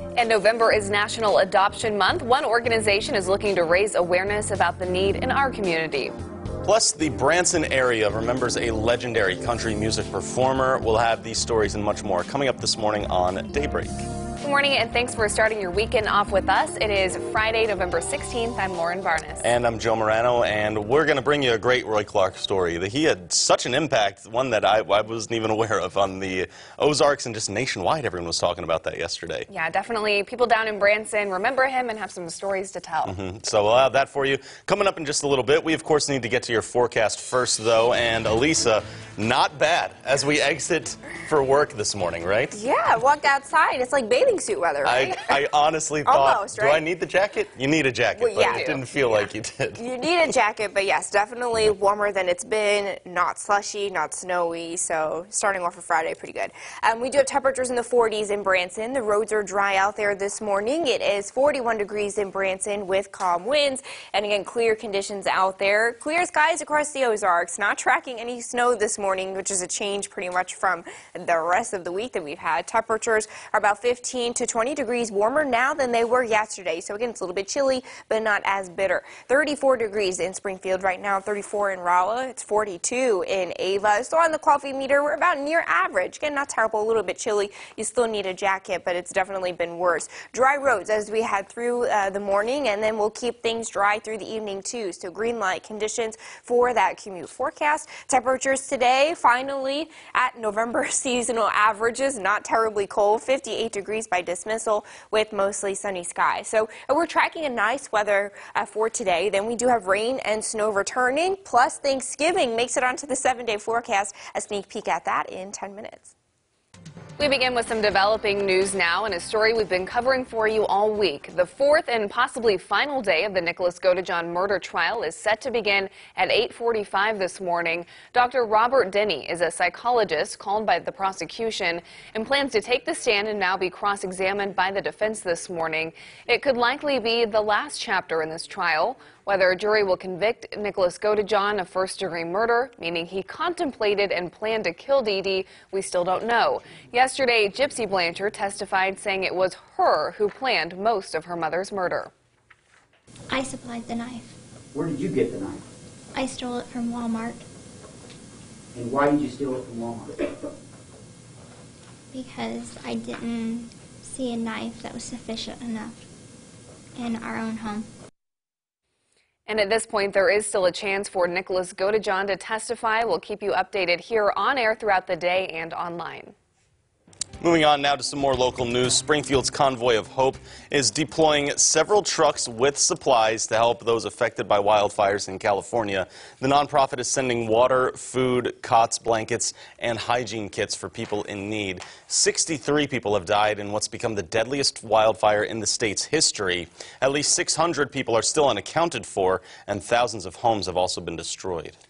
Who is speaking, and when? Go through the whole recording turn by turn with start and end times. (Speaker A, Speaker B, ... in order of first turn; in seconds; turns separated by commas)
Speaker A: 0.2-6.1, Speaker B: 6.6-13.9, Speaker A: 14.4-19.5, Speaker B: 19.4-29.5, Speaker A: 29.5-33.1, Speaker B: 33.0-42.5, Speaker C: 42.5-45.4, Speaker B: 44.8-49.8, Speaker C: 46.0-46.8, Speaker C: 48.1-116.1, Speaker A: 48.4-48.8, Speaker A: 117.2-152.1, Speaker D: 153.3-154.3, Speaker E: 154.7-155.6, Speaker D: 156.1-157.4, Speaker E: 158.7-160.1, Speaker D: 162.1-166.1, Speaker D: 166.9-167.9, Speaker A: 169.5-176.3, Speaker B: 177.4-201.8